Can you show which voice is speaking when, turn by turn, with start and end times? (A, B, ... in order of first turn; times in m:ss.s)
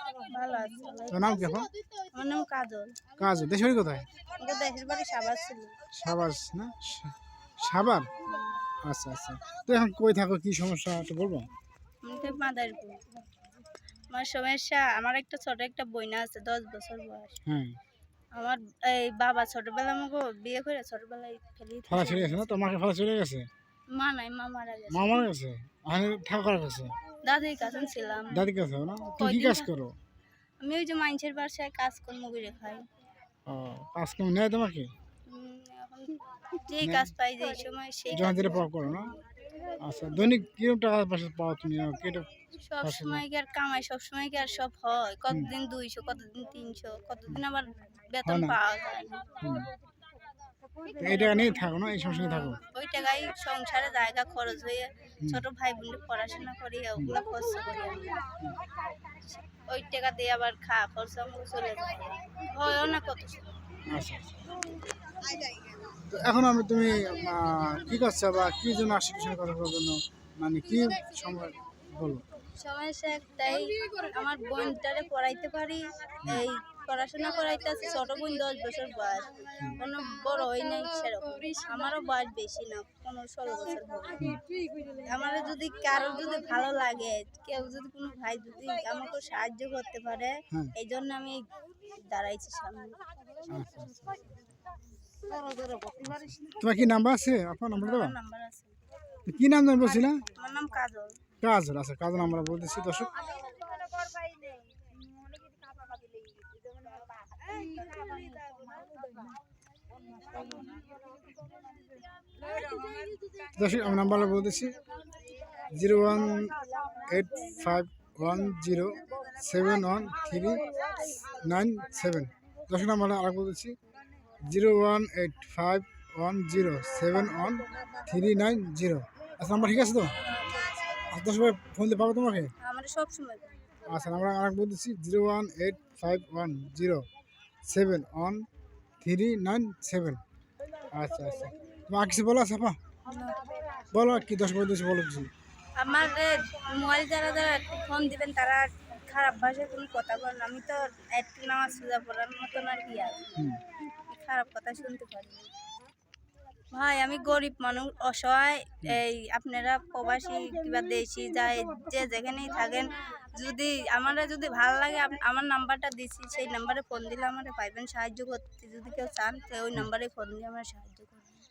0:00.2-0:01.3 A
0:01.1-0:01.7 B
0:02.1-0:03.0 A
0:03.2-0:04.1 B
0:04.4-0:05.7 A
0:05.9-0:08.1 B
0:08.3-0:08.6 A
0:08.8-0:11.5 B
0:12.0-0:13.0 A
0:14.1-0:17.4 A
0:17.5-0:17.8 B
0:18.4-0:22.4 A
0:21.9-0:23.5 B
0:23.9-0:25.2 A
0:24.9-0:26.9 B
0:27.2-0:28.4 A
0:28.3-0:29.9 B
0:29.2-0:29.7 A
0:30.6-0:32.8 A
0:33.5-0:34.9 B
0:35.3-0:38.7 A
0:36.8-0:37.1 B
0:38.1-0:39.1 B
0:39.8-0:42.3 B
0:42.6-0:49.3 A
0:42.8-0:43.2 B
0:48.2-0:48.6 B
0:49.4-0:49.7 B
0:51.0-0:52.6 B
0:52.6-0:58.3 A
0:59.4-1:03.5 A
1:03.9-1:04.5 B
1:06.0-1:12.2 B
1:12.5-1:24.3 A
1:25.0-1:33.0 A
1:33.5-1:34.4 B
1:36.0-1:38.1 B
1:37.7-1:38.7 A
1:39.2-1:40.2 B
1:40.2-1:41.2 A
1:41.4-1:43.2 B
1:47.6-1:48.2 A
1:53.5-1:54.7 B
1:55.7-2:03.8 B
2:04.4-2:10.2 B
2:10.2-2:10.8 A
2:11.1-2:12.5 B
2:12.6-2:13.5 A
2:13.9-2:17.0 B
2:17.6-2:18.4 B
2:19.0-2:20.2 B
2:20.9-2:22.8 B
2:23.0-2:23.4 A
2:23.9-2:25.3 B
2:25.8-2:33.3 A
2:34.0-2:35.5 A
2:36.7-2:51.3 A